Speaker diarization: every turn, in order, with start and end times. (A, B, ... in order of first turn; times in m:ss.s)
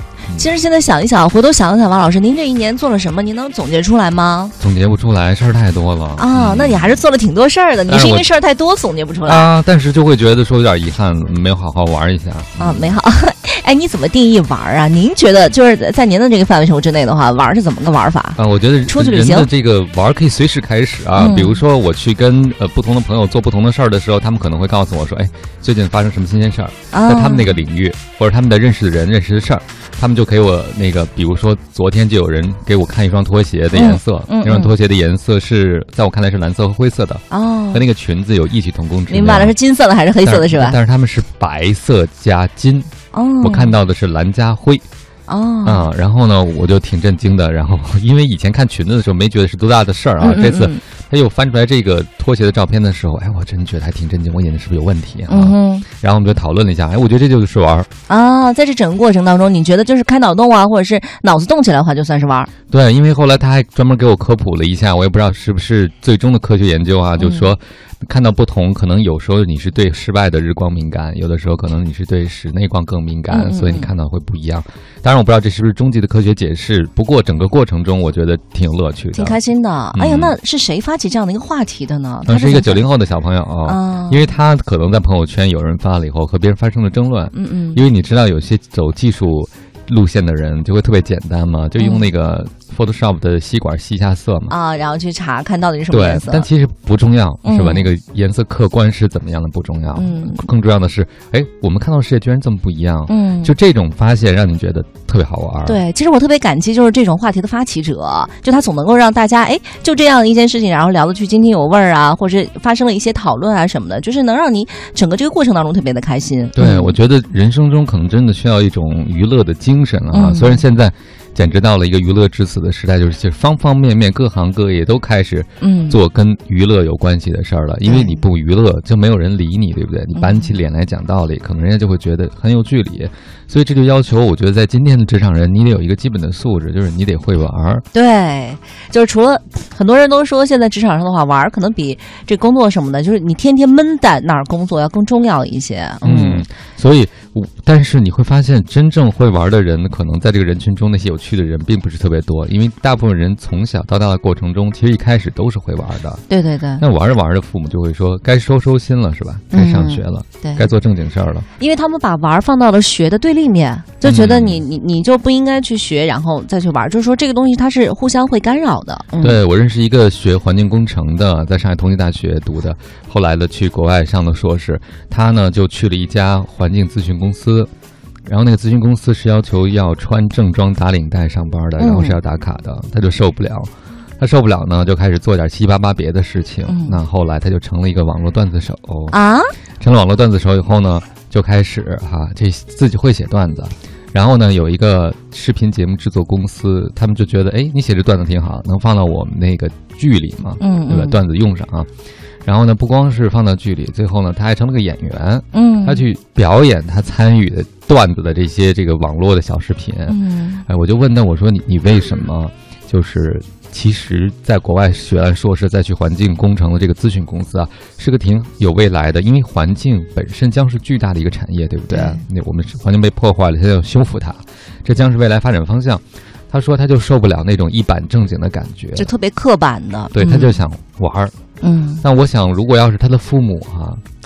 0:00.4-0:04.5 A
0:04.6-0:07.0 B
0:06.2-0:09.5 A
0:07.9-0:08.3 B
0:09.2-0:13.0 B
0:12.6-0:19.5 A
0:18.4-0:39.5 B
0:21.2-0:21.6 A
0:26.9-0:27.6 A
0:33.7-0:34.7 A
0:37.3-0:37.8 A
0:39.1-0:40.8 A
0:40.2-0:42.9 B
0:43.1-0:43.7 A
0:43.4-0:44.8 B
0:45.3-0:45.9 A
0:45.6-0:57.9 B
0:50.2-0:50.8 A
0:55.3-0:55.8 A
0:58.1-1:02.5 A
1:02.7-1:19.4 B
1:07.2-1:07.5 A
1:13.3-1:13.9 A
1:19.1-1:22.8 A
1:19.9-1:20.4 B
1:22.2-1:34.5 B
1:23.6-1:24.3 A
1:27.3-1:27.8 A
1:31.8-1:32.1 A
1:34.5-1:36.5 A
1:35.9-1:45.8 B
1:37.4-1:37.9 A
1:39.9-1:40.4 A
1:43.1-1:43.5 A
1:45.6-1:57.0 A
1:56.5-2:17.8 B
2:00.1-2:00.6 A
2:05.6-2:06.0 A
2:07.8-2:08.2 A
2:10.1-2:10.5 A
2:17.9-2:26.4 A
2:26.0-2:36.2 B
2:36.3-2:36.8 A
2:36.8-2:41.4 B
2:39.5-2:40.6 A
2:41.6-2:49.4 A
2:44.0-2:44.6 B
2:49.2-2:57.7 B
2:58.2-3:09.2 B
3:01.8-3:02.2 A
3:06.6-3:07.0 A
3:09.1-3:09.5 A
3:09.8-3:21.9 B
3:20.6-3:21.2 A
3:22.4-3:49.1 B
3:25.5-3:26.0 A
3:30.1-3:30.6 A
3:41.9-3:42.2 A
3:49.0-3:50.6 A
3:50.1-3:51.3 B
3:51.6-3:52.0 A
3:52.0-3:54.0 B